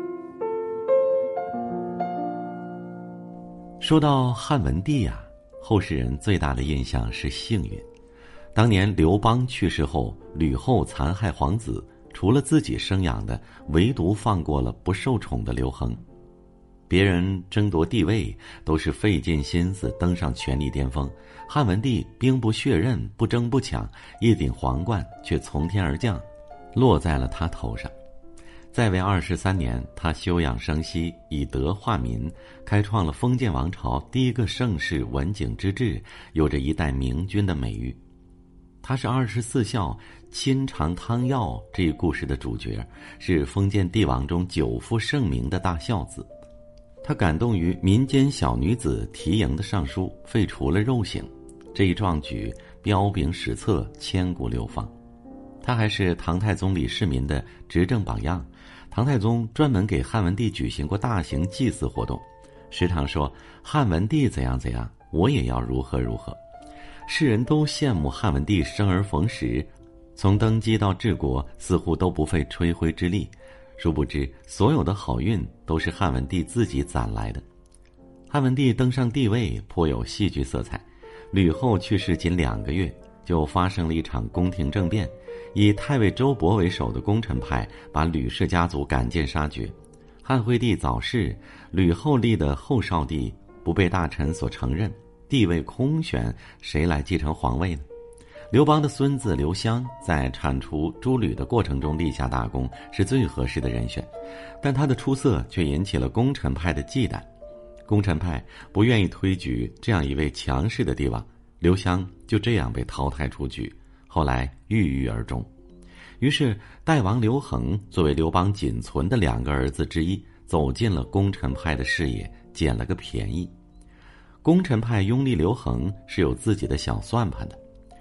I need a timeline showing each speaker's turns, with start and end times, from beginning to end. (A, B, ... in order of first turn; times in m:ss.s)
0:03.8-0:07.8 A
0:08.6-0:16.0 A
0:16.9-0:27.9 A
0:28.7-0:38.0 A
0:38.8-0:46.3 A
0:47.0-0:54.9 A
0:55.6-1:06.4 A
1:07.1-1:17.4 A
1:18.3-1:37.8 A
1:38.5-1:44.1 A
1:44.6-1:47.3 A
1:47.9-1:55.5 A
1:56.2-2:03.5 A
2:04.4-2:07.6 A